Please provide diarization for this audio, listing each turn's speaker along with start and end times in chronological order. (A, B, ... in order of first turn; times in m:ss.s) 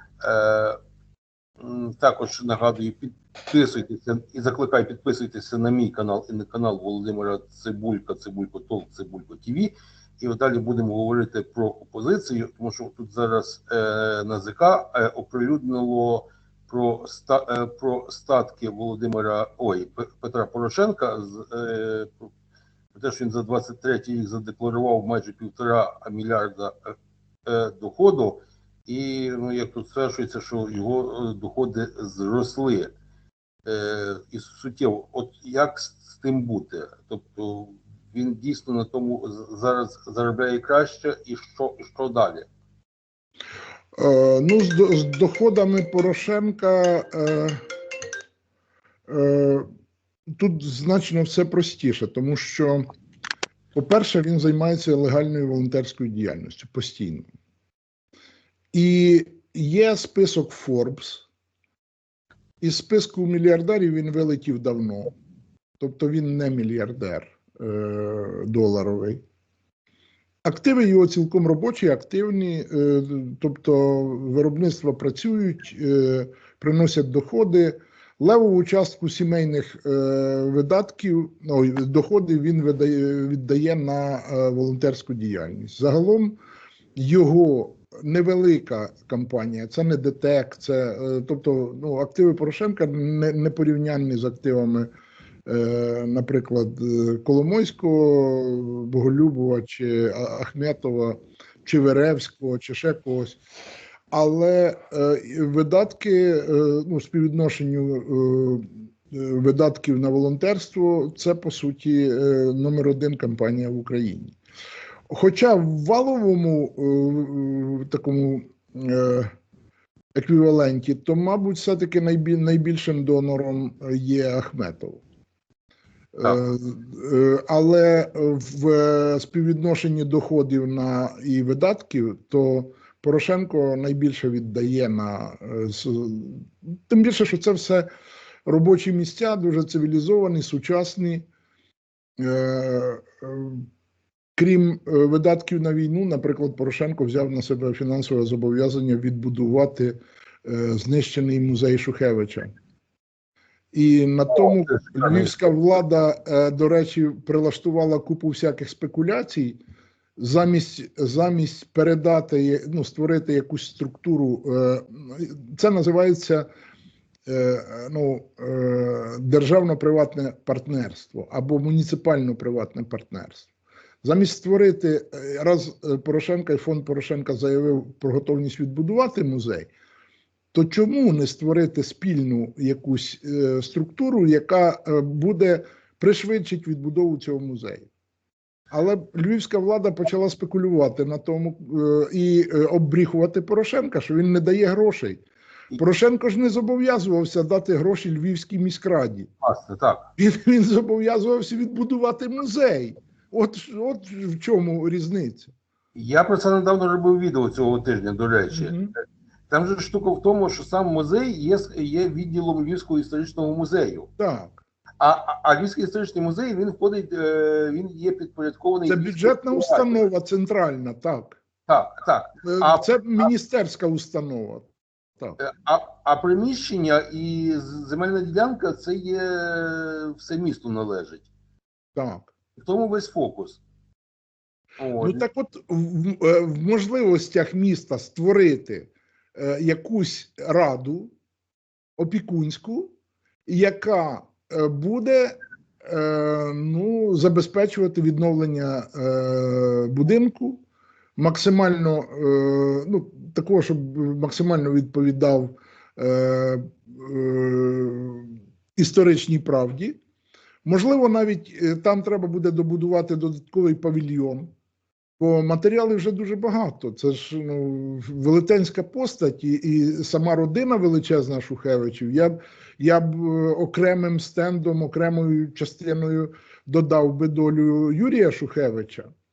0:00.2-0:00.8 A
0:01.6-0:22.3 A
0:22.9-0:26.9 A
0:27.4-0:32.9 A
0:33.6-0:42.5 A
0:44.0-0:47.6 B
0:49.1-0:49.6 B
0:50.4-0:52.8 B
0:53.7-0:57.3 B
0:58.7-1:01.2 B
1:02.6-1:05.1 B
1:05.8-1:09.2 B
1:10.4-1:26.4 B
1:27.0-1:34.9 B
1:35.4-1:43.4 B
1:44.1-1:54.4 B
1:55.1-1:59.3 B
2:00.1-2:05.0 B
2:06.1-2:17.9 B
2:18.4-2:21.3 B
2:22.2-2:23.6 B
2:24.4-2:32.5 B
2:33.7-2:39.6 B
2:34.3-2:35.3 A
2:40.2-2:46.4 B
2:47.2-2:53.5 B
2:54.0-2:59.7 B
3:00.5-3:07.9 B
3:08.7-3:15.2 B
3:15.8-3:19.3 B
3:19.4-3:20.1 A
3:20.2-3:25.5 B
3:25.9-3:28.8 A
3:28.5-3:28.9 B
3:29.5-3:34.1 A
3:34.2-3:34.6 B
3:35.0-3:40.0 A
3:38.9-3:41.4 B
3:41.7-3:43.0 A
3:42.4-3:45.4 B
3:45.4-3:51.3 A
3:52.0-3:52.3 B
3:52.6-3:53.6 A
3:54.8-3:55.2 A
3:55.0-4:01.1 B
4:02.0-4:02.9 B
4:03.4-4:10.6 B
4:11.2-4:20.0 B
4:20.6-4:24.5 B
4:25.2-4:39.1 B